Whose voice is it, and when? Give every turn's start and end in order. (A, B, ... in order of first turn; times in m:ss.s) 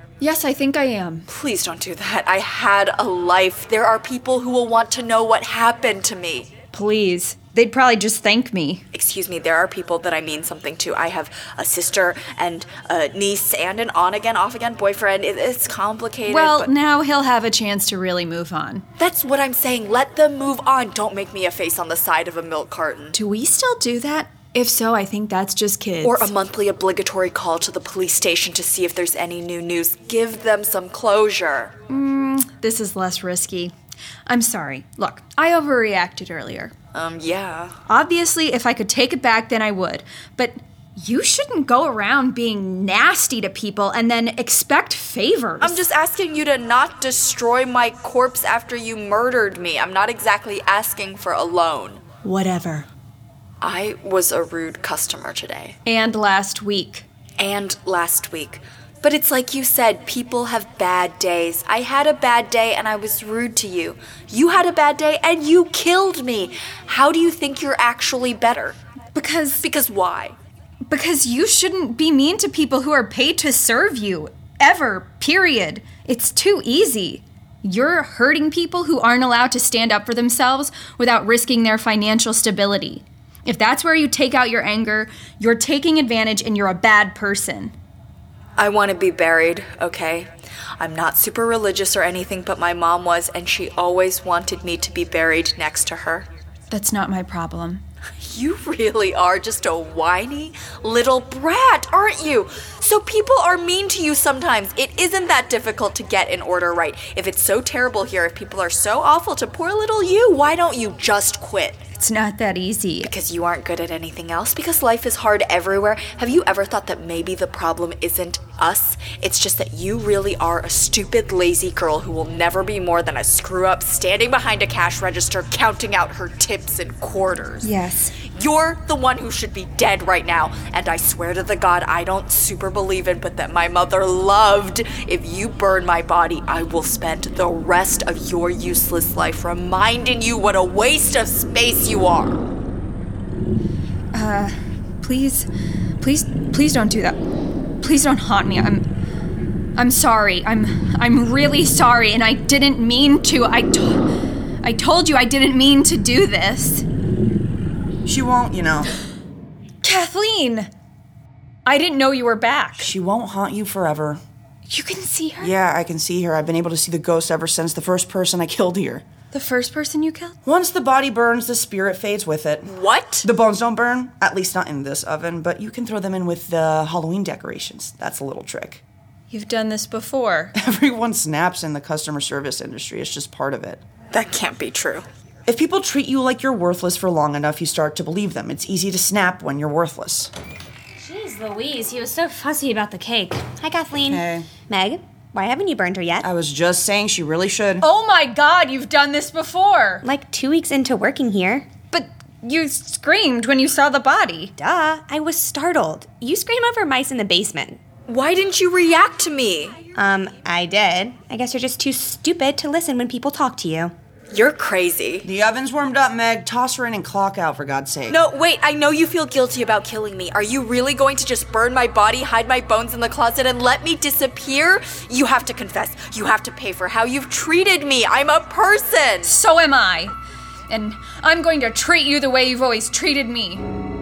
0:00.2-0:01.3 A
0:01.3-0:06.5 B
0:06.7-0:08.8 A
0:08.9-0:16.7 B
0:16.3-0:18.8 A
0:19.0-0:23.2 B
0:23.1-0:26.3 A
0:26.0-0:31.7 B
0:31.9-0:33.7 A
0:34.3-0:36.7 A
0:36.9-0:37.7 B
0:37.9-0:45.8 A
0:45.6-0:52.0 B
0:52.2-0:52.9 A
0:53.6-0:55.8 B
0:55.8-0:57.1 A
0:57.4-1:08.8 B
1:09.2-1:09.6 A
1:09.6-1:10.4 B
1:10.9-1:27.7 A
1:28.6-1:36.3 B
1:36.7-1:37.8 A
1:38.2-1:51.8 B
1:52.0-1:53.1 A
1:53.0-2:07.7 B
2:07.6-2:08.1 A
2:08.3-2:22.4 B
2:24.1-2:25.5 A
2:26.0-2:27.2 A
2:27.8-2:28.8 A
2:29.8-2:34.0 A
2:34.6-2:36.8 A
2:38.1-2:38.9 C
2:39.8-2:40.7 A
2:41.6-2:42.9 A
2:42.8-2:44.2 C
2:44.7-2:45.5 A
2:45.4-2:49.0 C
2:49.3-2:50.4 A
2:50.4-2:58.8 C
2:52.7-2:53.3 B
2:59.3-3:00.5 A
3:00.6-3:03.8 C
3:04.1-3:05.1 B
3:05.5-3:10.3 C
3:11.0-3:16.3 D
3:14.1-3:14.5 C
3:16.2-3:17.9 C
3:17.8-3:20.0 A
3:20.0-3:21.7 D
3:21.9-3:24.5 A
3:24.6-3:27.8 D
3:28.1-3:29.8 B
3:30.0-3:33.9 D
3:34.3-3:35.3 B
3:35.2-3:38.2 C
3:38.1-3:49.3 B
3:49.2-3:50.2 A
3:50.7-3:53.6 A